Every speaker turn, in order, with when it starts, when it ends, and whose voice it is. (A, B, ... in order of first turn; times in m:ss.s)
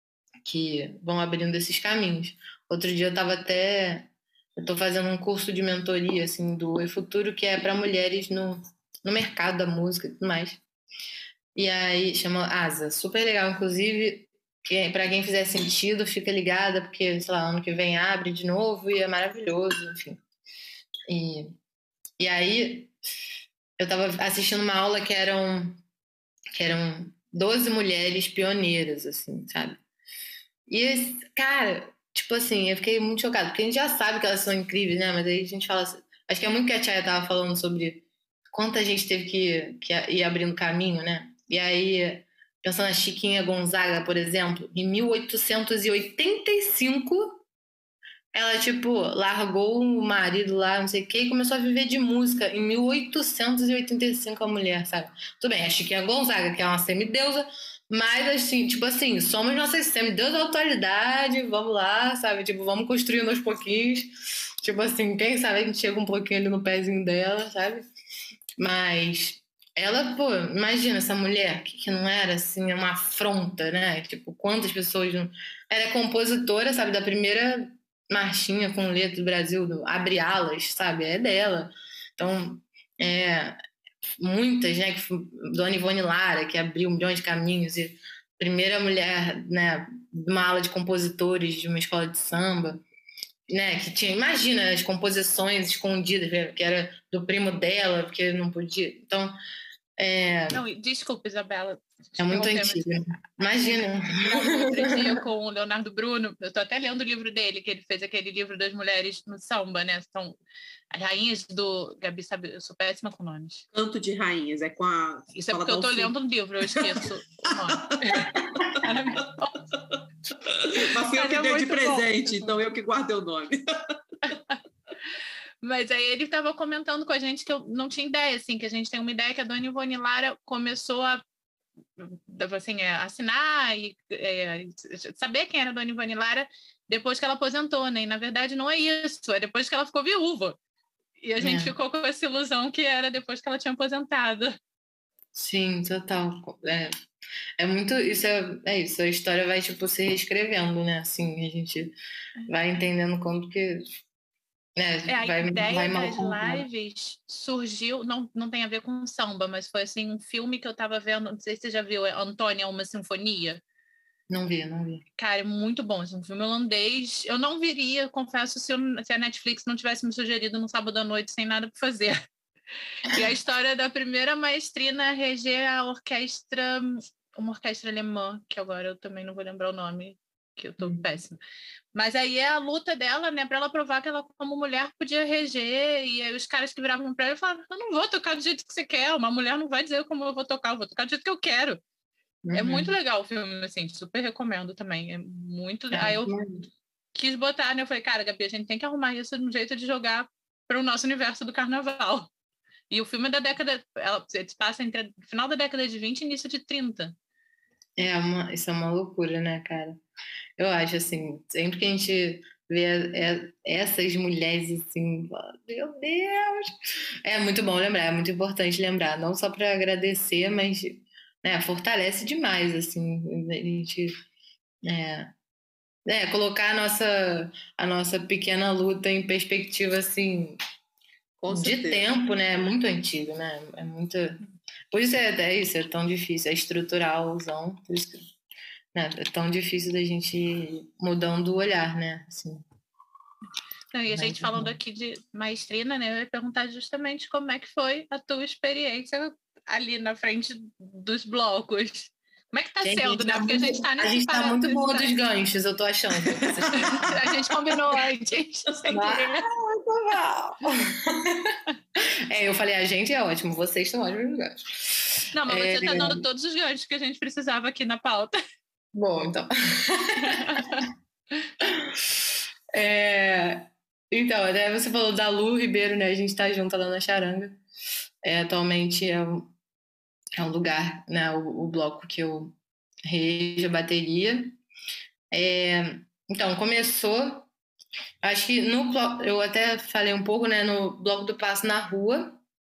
0:00.4-0:10.6 A
0:11.6-0:20.2 A
0:21.1-0:21.5 A
0:22.2-0:22.9 A
0:23.8-0:25.8 A
0:26.6-0:29.8 A
0:30.7-0:47.4 A
0:48.3-1:04.1 A
1:04.6-1:07.8 A
1:08.6-1:23.6 A
1:24.2-1:32.8 A
1:33.5-1:39.4 A
1:40.0-1:40.6 A
1:40.5-1:50.4 B
1:42.2-1:45.2 A
1:50.9-1:53.6 B
1:53.7-1:56.1 C
1:55.4-1:59.6 B
1:56.7-1:58.8 C
2:00.4-2:04.0 C
2:01.0-2:02.6 B
2:05.6-2:11.2 B
2:12.0-2:20.6 B
2:21.2-2:24.6 B
2:21.4-2:21.7 A
2:25.4-2:26.9 A
2:27.6-2:32.0 A
2:32.5-2:33.8 A
2:34.8-2:36.7 A
2:35.1-2:43.6 B
2:44.3-2:45.0 A
2:45.2-2:52.2 B
2:53.1-3:01.4 B
3:02.0-3:11.8 B
3:12.4-3:13.0 A
3:12.5-3:16.4 B
3:15.9-3:16.7 A
3:17.2-3:22.3 B
3:22.9-3:27.2 B
3:28.0-3:30.0 A
3:30.6-3:36.7 A
3:37.2-3:44.1 A
3:44.8-3:45.3 A
3:46.1-3:50.6 A
3:51.4-3:52.0 C
3:51.5-3:58.2 A
3:58.9-4:02.6 A
4:03.9-4:15.1 B
4:04.1-4:04.8 A
4:12.8-4:17.2 A
4:16.6-4:17.3 C
4:16.8-4:19.4 B
4:18.9-4:21.6 A
4:22.3-4:25.0 A
4:25.3-4:28.4 B
4:25.5-4:26.2 A
4:28.9-4:30.8 A
4:30.3-4:30.8 B
4:31.6-4:31.9 A
4:32.7-4:37.6 A
4:38.2-4:39.5 A
4:40.4-4:44.6 A
4:45.3-4:47.5 A
4:48.2-4:52.4 A